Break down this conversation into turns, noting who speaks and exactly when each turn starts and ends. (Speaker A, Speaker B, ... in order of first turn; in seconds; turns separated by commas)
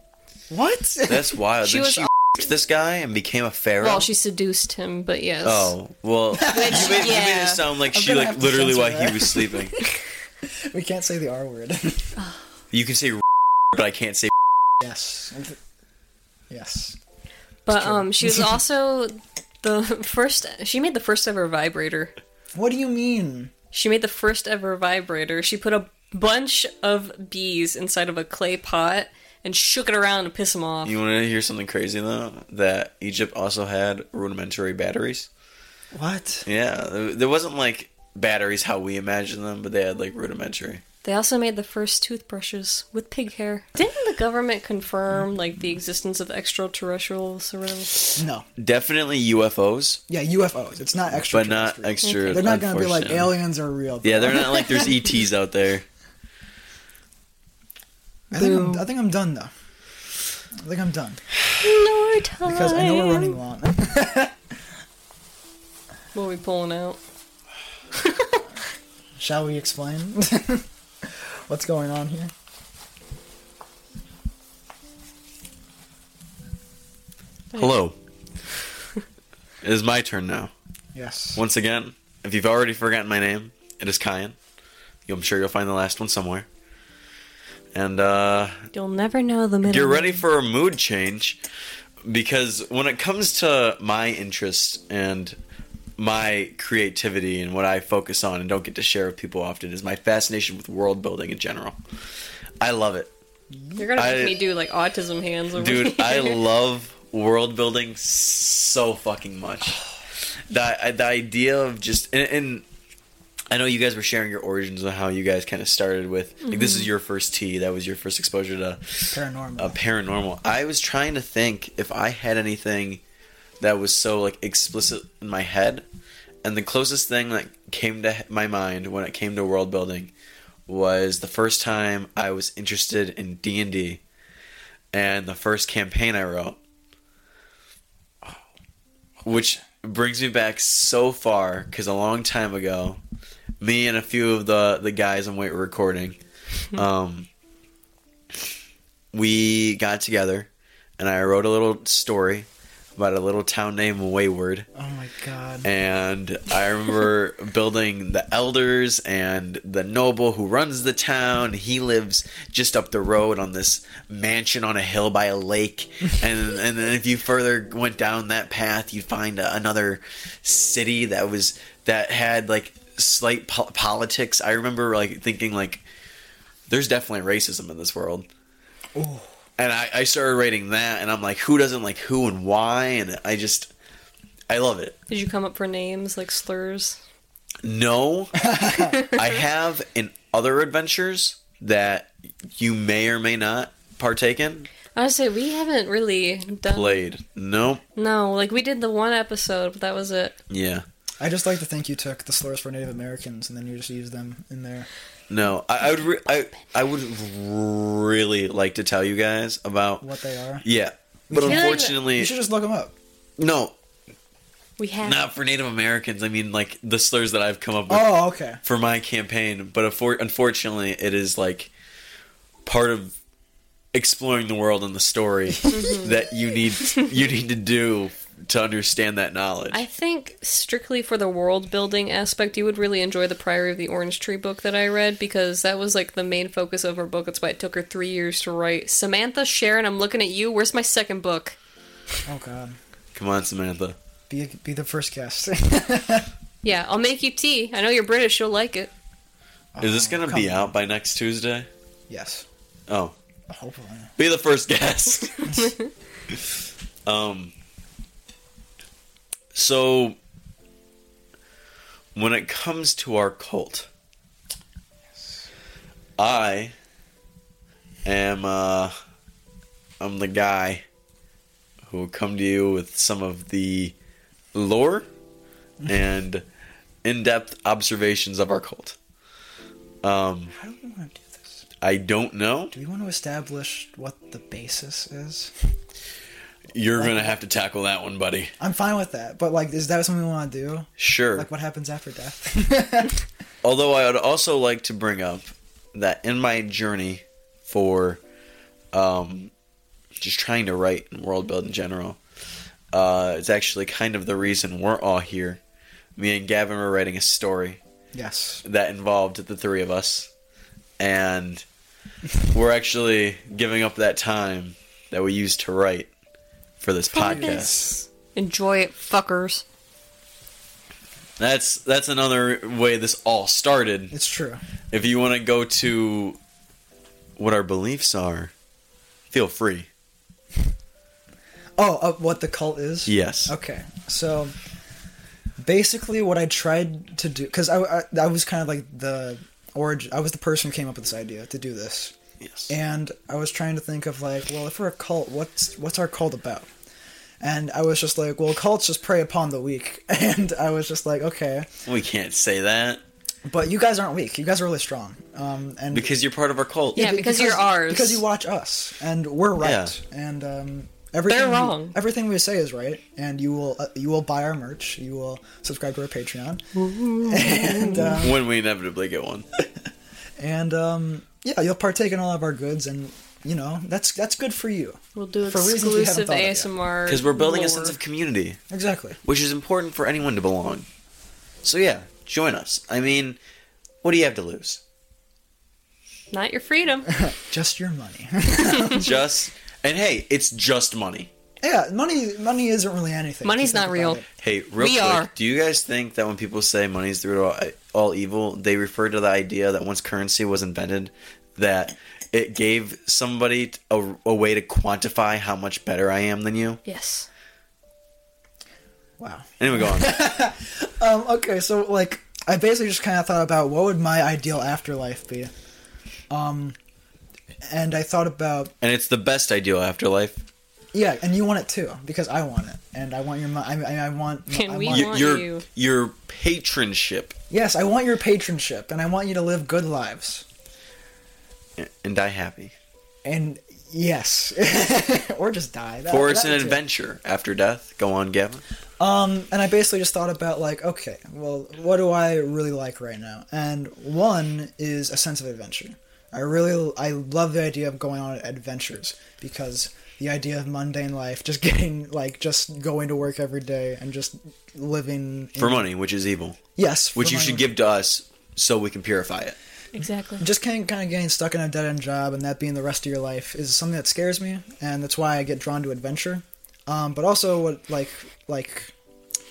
Speaker A: 0.5-1.4, Speaker B: 1.1-4.1, Speaker C: 1.6-2.2, Speaker C: 3.8-5.7, Speaker B: 5.4-9.8, Speaker A: 6.3-7.2, Speaker C: 6.4-7.6, Speaker A: 7.9-9.7, Speaker A: 10.4-12.1, Speaker B: 12.7-14.3, Speaker A: 14.8-15.6, Speaker A: 16.5-17.0, Speaker C: 17.6-22.1, Speaker A: 17.7-18.6, Speaker A: 22.5-23.5, Speaker C: 23.7-30.9, Speaker B: 30.8-35.3, Speaker A: 35.9-36.5, Speaker B: 36.5-40.8, Speaker C: 41.0-48.2, Speaker A: 48.2-48.5, Speaker B: 48.6-50.0, Speaker A: 50.1-54.9, Speaker B: 51.2-53.3, Speaker C: 52.0-52.4, Speaker B: 54.0-55.8, Speaker A: 58.3-59.5, Speaker C: 58.3-58.8, Speaker A: 60.5-61.2, Speaker C: 61.6-63.4, Speaker A: 62.4-64.4, Speaker C: 66.1-67.0, Speaker C: 67.9-68.4, Speaker A: 69.2-72.3, Speaker B: 77.5-77.9, Speaker B: 79.6-80.5, Speaker A: 80.9-81.4, Speaker B: 81.3-84.3, Speaker B: 85.1-86.5, Speaker B: 87.7-88.7, Speaker C: 88.7-90.2, Speaker B: 89.7-91.4, Speaker B: 92.0-95.4, Speaker B: 96.0-101.8, Speaker B: 102.6-103.1, Speaker A: 103.5-103.8, Speaker C: 103.8-106.4, Speaker B: 103.9-104.4, Speaker B: 105.5-109.8, Speaker B: 110.5-112.6, Speaker B: 113.5-123.0, Speaker C: 116.5-116.9, Speaker A: 119.1-119.8, Speaker B: 123.6-125.8, Speaker B: 126.4-130.1, Speaker B: 130.7-134.0, Speaker B: 134.9-136.6, Speaker B: 139.2-143.0, Speaker B: 143.6-146.2, Speaker B: 146.7-147.3, Speaker B: 149.1-154.7, Speaker A: 154.7-155.7, Speaker B: 155.6-175.8, Speaker B: 176.7-178.3, Speaker A: 178.9-179.3, Speaker B: 179.6-183.7, Speaker B: 184.5-184.9, Speaker C: 185.1-187.0, Speaker B: 187.6-188.4, Speaker A: 188.4-189.0, Speaker B: 189.0-194.7, Speaker C: 194.9-197.0, Speaker B: 196.7-197.8, Speaker C: 197.9-200.4, Speaker B: 200.5-200.8, Speaker A: 201.2-204.9, Speaker B: 205.3-210.0, Speaker A: 210.0-210.6, Speaker B: 210.6-212.3, Speaker A: 211.3-212.9, Speaker C: 211.4-212.0, Speaker B: 213.4-213.7, Speaker C: 214.8-215.2, Speaker B: 215.0-221.7, Speaker A: 217.9-218.6, Speaker B: 222.6-223.1, Speaker B: 223.9-229.8, Speaker A: 225.6-225.9, Speaker C: 225.7-226.1, Speaker C: 229.7-241.6, Speaker A: 242.2-242.8, Speaker B: 243.1-243.9, Speaker A: 244.3-246.3, Speaker C: 246.6-248.9, Speaker A: 249.7-250.7, Speaker B: 249.8-251.7, Speaker A: 252.1-252.4, Speaker B: 252.9-253.1, Speaker A: 253.5-254.1, Speaker B: 254.2-255.6, Speaker A: 255.4-255.7, Speaker B: 257.1-257.5, Speaker B: 259.5-260.2, Speaker B: 262.1-263.9, Speaker B: 266.2-266.7, Speaker B: 268.0-268.9, Speaker B: 270.0-270.8, Speaker B: 271.9-273.9, Speaker B: 274.5-275.1, Speaker B: 275.9-276.4, Speaker B: 277.0-279.0, Speaker B: 280.0-280.5, Speaker A: 280.5-281.6, Speaker B: 281.8-282.7, Speaker A: 282.7-285.5, Speaker B: 286.7-288.5, Speaker A: 287.0-287.4, Speaker A: 288.6-293.2, Speaker B: 291.0-291.5, Speaker B: 293.6-298.2, Speaker B: 298.9-299.5, Speaker B: 300.2-302.2, Speaker B: 302.9-305.6, Speaker B: 306.1-307.8, Speaker A: 308.1-308.6, Speaker B: 308.6-310.3, Speaker B: 311.0-311.6, Speaker B: 312.4-316.1, Speaker B: 316.8-317.9, Speaker C: 317.1-319.6, Speaker A: 317.2-317.9, Speaker B: 321.4-324.1, Speaker A: 324.1-324.6, Speaker B: 324.9-326.4, Speaker B: 327.4-328.5, Speaker B: 329.3-329.9, Speaker A: 331.8-334.5, Speaker B: 333.1-333.5, Speaker A: 335.6-342.1, Speaker B: 342.4-342.7, Speaker A: 342.7-346.7, Speaker A: 347.4-351.7, Speaker B: 351.8-353.0, Speaker A: 353.4-356.2, Speaker B: 355.9-357.0, Speaker C: 356.9-358.2, Speaker A: 356.9-368.4, Speaker B: 359.6-359.9, Speaker C: 361.3-361.9, Speaker C: 366.8-368.2, Speaker B: 368.1-369.5, Speaker A: 370.4-376.7, Speaker C: 375.1-378.0, Speaker B: 377.1-378.6, Speaker A: 378.7-379.2, Speaker B: 379.2-380.9, Speaker B: 381.6-383.4, Speaker B: 384.0-384.8, Speaker C: 386.3-387.2, Speaker A: 387.1-389.1, Speaker C: 388.7-389.0, Speaker B: 388.9-391.3, Speaker A: 391.6-394.2, Speaker C: 393.4-394.2, Speaker B: 394.4-406.8, Speaker C: 394.8-395.3, Speaker C: 406.8-407.3, Speaker A: 409.2-415.5, Speaker B: 409.6-410.2, Speaker A: 416.3-416.8, Speaker A: 417.6-418.7, Speaker B: 418.8-420.4, Speaker A: 420.9-425.3, Speaker C: 424.5-425.6, Speaker B: 424.9-427.4, Speaker A: 427.5-430.4, Speaker B: 431.8-432.7, Speaker A: 433.2-436.8, Speaker B: 436.1-438.6, Speaker A: 439.0-455.9, Speaker B: 455.6-456.6, Speaker A: 456.8-457.7, Speaker B: 457.1-459.6, Speaker C: 459.9-460.4, Speaker A: 460.4-468.9